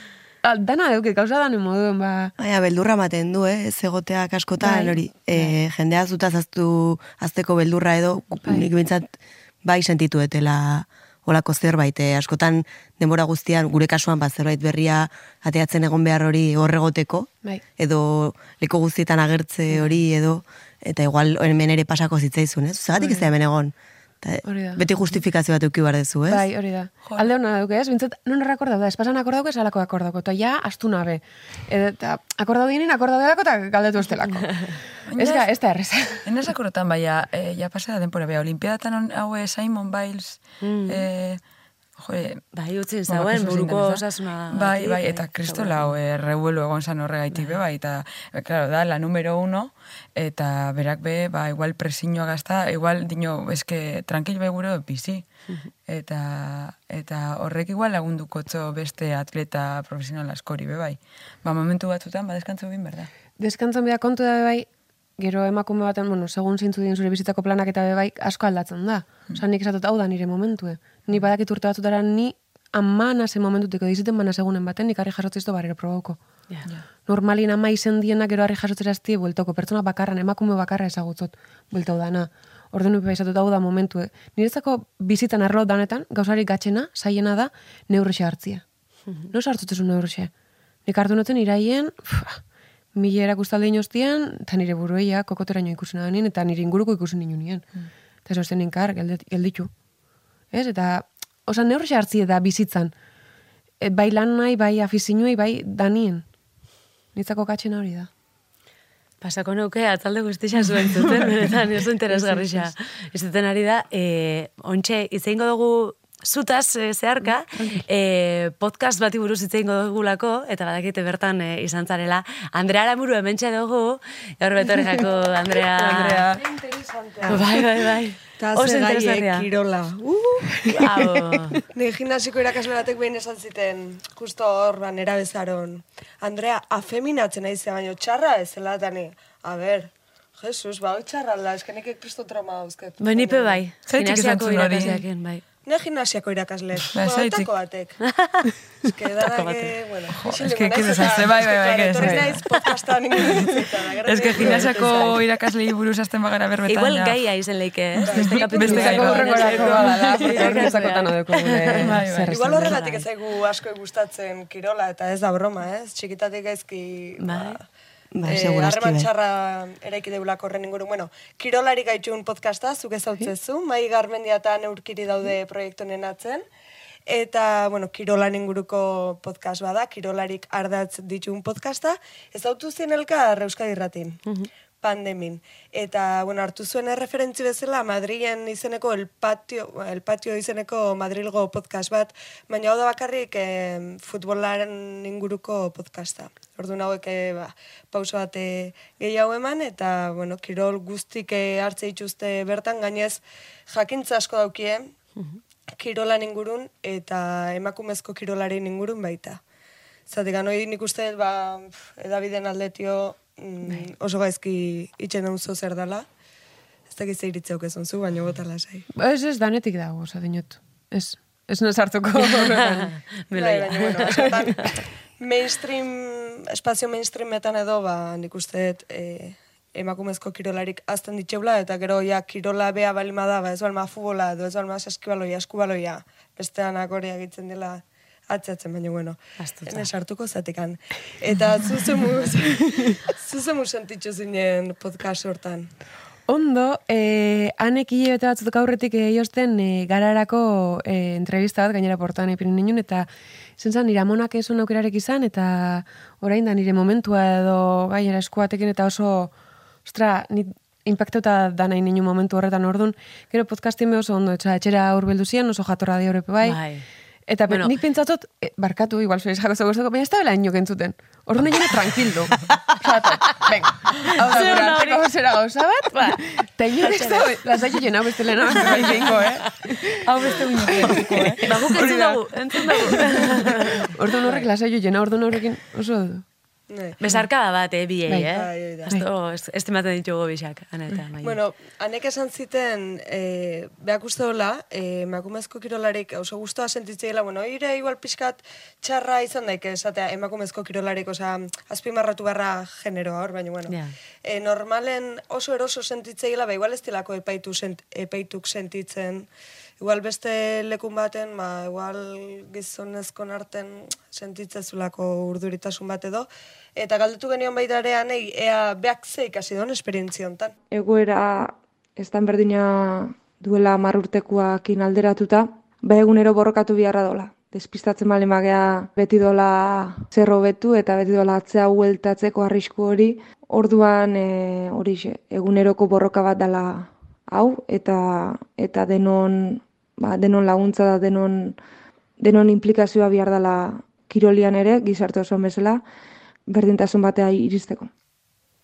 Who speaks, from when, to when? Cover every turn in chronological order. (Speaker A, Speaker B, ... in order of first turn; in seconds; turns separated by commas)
Speaker A: 0.4-2.3, Speaker B: 2.4-26.4, Speaker A: 4.6-5.5, Speaker A: 8.4-8.7, Speaker A: 22.9-23.3, Speaker A: 24.4-24.9, Speaker A: 26.3-36.3, Speaker C: 35.1-35.5, Speaker C: 36.2-41.4, Speaker D: 40.6-41.0, Speaker C: 42.0-42.4, Speaker D: 42.5-45.9, Speaker C: 43.1-55.2, Speaker D: 47.3-47.6, Speaker C: 55.9-63.1, Speaker A: 63.4-76.2, Speaker A: 77.0-88.6, Speaker A: 89.3-90.3, Speaker A: 90.8-92.4, Speaker A: 92.9-97.7, Speaker A: 98.2-99.7, Speaker A: 100.5-102.9, Speaker A: 103.8-106.2, Speaker A: 107.1-108.1, Speaker D: 109.2-126.3, Speaker A: 112.1-112.7, Speaker E: 125.0-127.5, Speaker D: 127.2-129.5, Speaker E: 128.4-130.7, Speaker D: 130.7-131.6, Speaker E: 131.7-143.6, Speaker D: 143.0-145.4, Speaker C: 143.8-145.0, Speaker E: 145.7-148.0, Speaker C: 146.9-147.5, Speaker D: 148.0-148.5, Speaker E: 148.8-155.3, Speaker D: 149.2-149.7, Speaker C: 150.2-152.4, Speaker A: 152.0-152.3, Speaker C: 154.0-157.2, Speaker D: 154.4-154.7, Speaker D: 156.7-161.9, Speaker C: 158.1-160.7, Speaker E: 158.1-160.9, Speaker A: 158.6-162.7, Speaker C: 161.8-162.7, Speaker E: 162.3-167.6, Speaker D: 162.6-163.0, Speaker D: 167.2-167.6, Speaker B: 168.1-169.1, Speaker E: 168.2-176.4, Speaker E: 177.1-184.2, Speaker E: 184.8-204.9, Speaker E: 205.8-209.4, Speaker E: 210.1-216.1, Speaker E: 216.9-218.9, Speaker A: 218.9-222.9, Speaker D: 222.2-224.7, Speaker E: 223.3-245.7, Speaker D: 239.4-239.9, Speaker A: 246.3-259.3, Speaker A: 259.8-266.6, Speaker D: 266.4-266.8, Speaker A: 267.3-280.0, Speaker D: 267.5-267.8, Speaker D: 274.0-275.0, Speaker D: 275.9-276.2, Speaker D: 276.7-277.4, Speaker D: 278.5-279.2, Speaker C: 280.0-281.4, Speaker A: 280.6-282.1, Speaker D: 281.4-284.4, Speaker A: 283.9-286.2, Speaker E: 286.7-287.0, Speaker D: 287.0-291.4, Speaker E: 288.3-288.9, Speaker E: 291.2-309.3, Speaker D: 303.7-303.9, Speaker E: 309.8-320.5, Speaker F: 320.7-341.6, Speaker F: 342.2-345.8, Speaker F: 346.5-347.9